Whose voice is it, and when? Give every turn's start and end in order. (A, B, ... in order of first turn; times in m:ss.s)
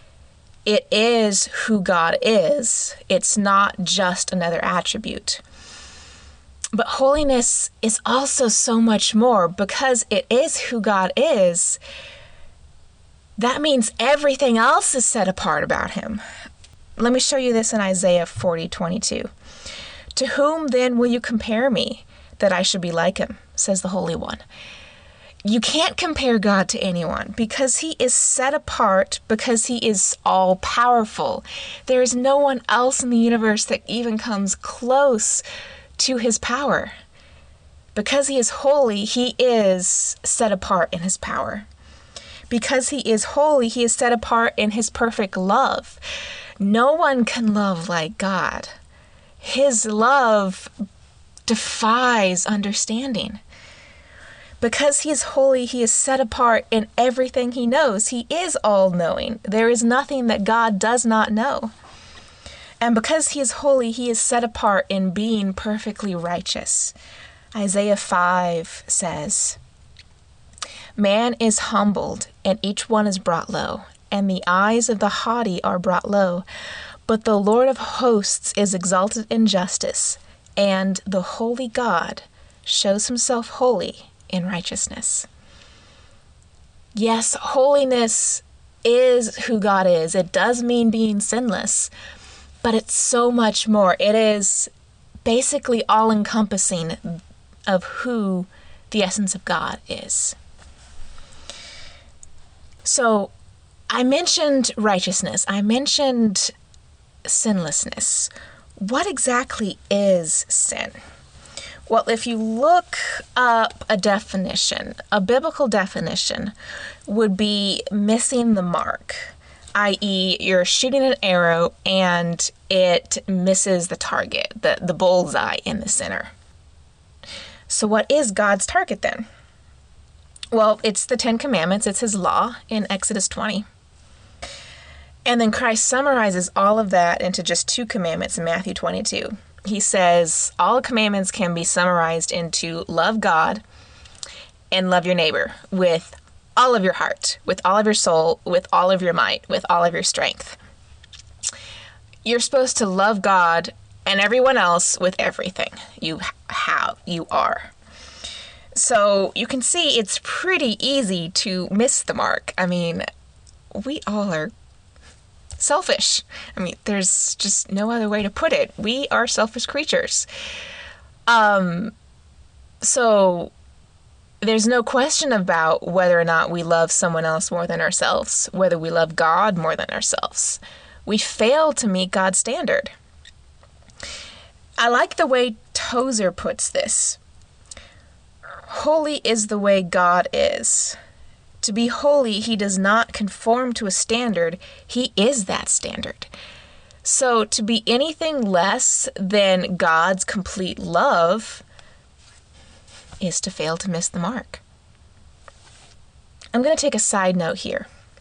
0:00.6-0:05.4 A
0:06.7-0:11.8 A
0:13.4-0:16.2 A
0:17.0-0:19.3 A
0:20.2-0:24.4 A
0:25.4-0:35.4 A
0:36.0-0:36.9 A
0:37.9-0:41.7 A
0:42.5-0:46.0 A
0:46.6-0:48.7 A
0:49.4-0:50.7 A
0:51.5-0:53.4 A
0:54.6-1:01.7 A
1:02.8-1:06.9 A
1:07.5-1:09.6 A
1:11.0-1:16.4 A
1:17.1-1:25.3 A
1:26.9-1:31.9 A
1:32.6-1:34.7 A
1:35.2-1:40.4 A
1:42.8-1:43.3 A
1:43.9-1:46.5 A
1:47.2-1:51.0 A
1:51.9-1:56.5 A
1:57.1-2:06.3 A
2:07.7-2:09.2 A
2:10.5-2:13.6 A
2:15.2-2:23.6 A
2:24.7-2:30.6 A
2:32.2-2:37.7 A
2:38.7-2:43.0 A
2:43.7-2:44.5 A
2:45.6-2:50.3 A
2:51.3-2:51.9 A
2:52.8-2:53.5 A
2:54.4-3:02.9 A
3:04.8-3:07.2 A
3:08.7-3:11.0 A
3:11.6-3:16.3 A
3:17.0-3:21.6 A
3:23.2-3:24.6 A
3:26.5-3:27.9 A